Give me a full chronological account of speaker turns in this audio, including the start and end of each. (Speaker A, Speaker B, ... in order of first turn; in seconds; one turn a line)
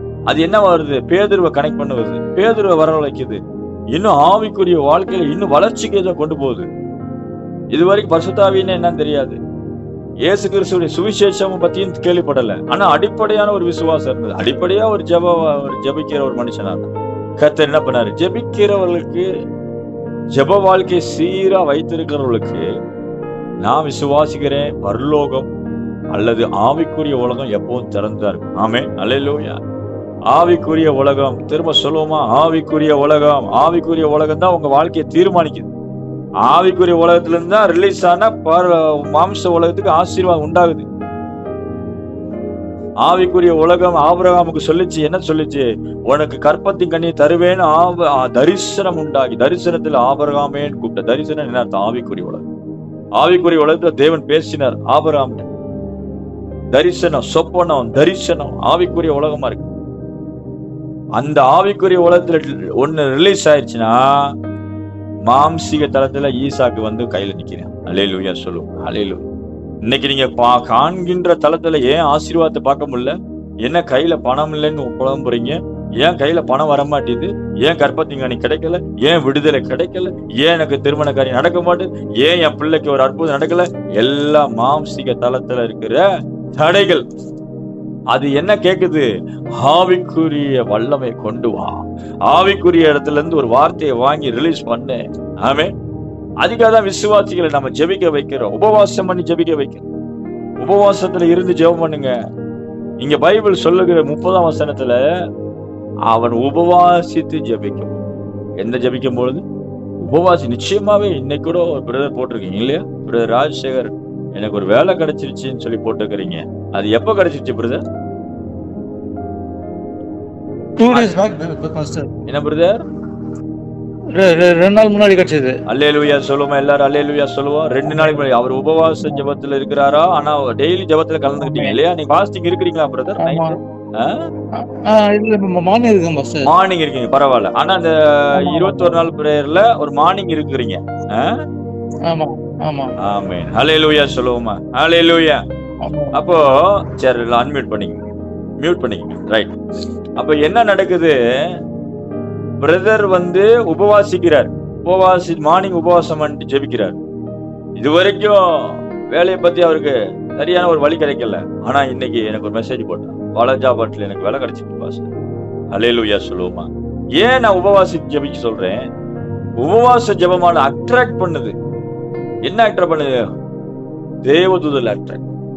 Speaker A: 0.3-3.4
Speaker A: 3.9-6.7
Speaker A: 7.7-9.4
Speaker A: 10.2-19.2
Speaker A: 20.4-22.6
Speaker A: 23.6-25.5
Speaker A: 26.1-29.6
Speaker A: 30.3-35.7
Speaker A: 36.5-40.8
Speaker A: 43.0-52.4
Speaker A: 53.2-55.5
Speaker A: 56.7-59.7
Speaker A: 61.2-64.0
Speaker A: 65.3-69.2
Speaker A: 69.9-73.1
Speaker A: 73.6-86.0
Speaker A: 86.6-87.0
Speaker A: 88.1-89.0
Speaker A: 89.6-91.8
Speaker A: 92.3-95.7
Speaker A: 96.4-99.8
Speaker A: 100.6-102.1
Speaker A: 103.0-105.0
Speaker A: 106.1-108.0
Speaker A: 108.6-109.4
Speaker A: 110.1-117.8
Speaker B: 120.8-122.1
Speaker A: 120.9-121.2
Speaker A: 122.3-122.8
Speaker B: 124.1-125.5
Speaker A: 125.7-134.2
Speaker B: 127.9-128.2
Speaker B: 131.4-131.8
Speaker B: 133.2-133.6
Speaker B: 134.6-136.5
Speaker A: 136.4-141.3
Speaker B: 138.4-139.0
Speaker B: 142.1-142.9
Speaker A: 143.1-145.4
Speaker B: 145.8-146.2
Speaker A: 146.1-148.0
Speaker A: 148.6-149.5
Speaker A: 150.2-151.1
Speaker A: 152.6-157.0
Speaker A: 157.8-158.4
Speaker A: 159.1-165.1
Speaker A: 165.7-166.7
Speaker A: 167.2-168.8
Speaker A: 169.6-171.5
Speaker A: 172.4-173.1
Speaker A: 174.2-175.3